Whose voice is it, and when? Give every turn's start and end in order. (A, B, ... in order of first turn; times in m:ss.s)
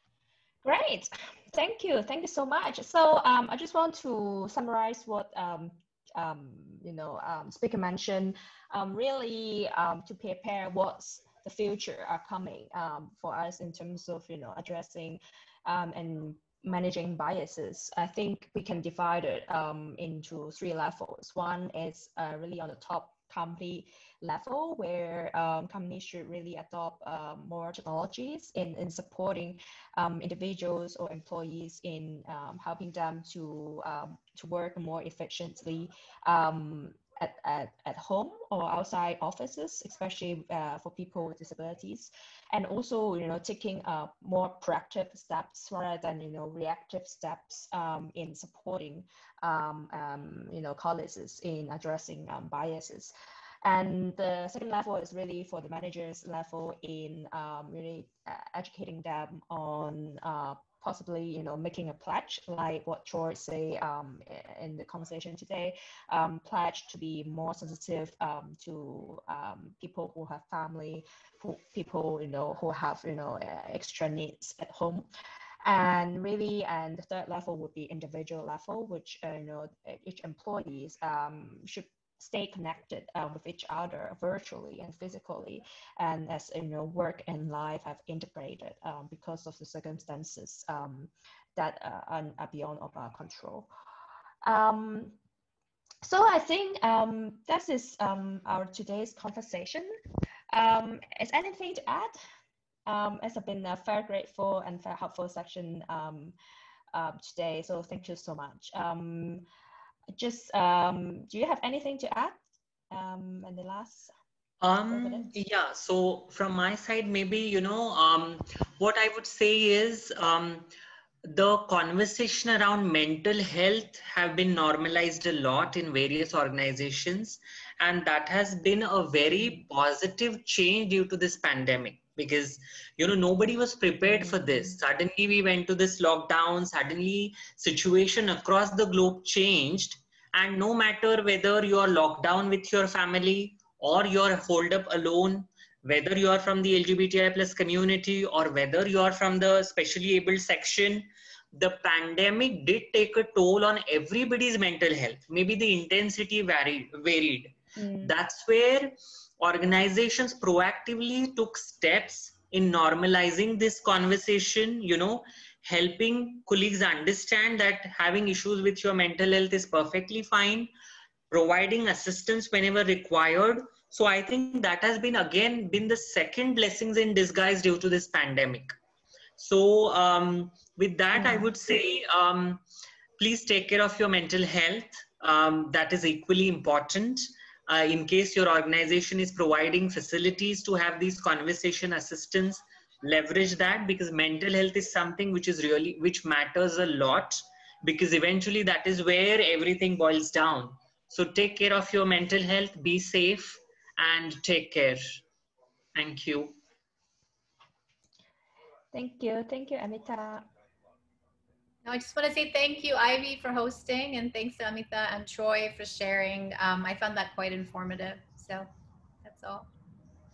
0:00.6-0:53.1 A
0:53.6-1:15.1 A
1:15.6-1:33.7 A
1:34.4-1:35.2 A
1:36.0-1:39.9 A
1:40.5-1:42.2 A
1:42.9-1:46.3 A
1:46.9-1:49.4 A
1:50.1-1:54.1 A
1:54.6-2:00.7 B
1:54.7-1:55.3 A
2:01.2-2:50.7 B
2:37.8-2:38.1 C
2:51.3-2:58.7 B
2:59.4-3:02.6 B
3:01.2-3:01.4 C
3:03.2-3:25.2 B
3:26.0-3:26.6 B
3:28.9-3:30.4 A
3:31.8-3:38.7 C
3:39.2-3:39.7 C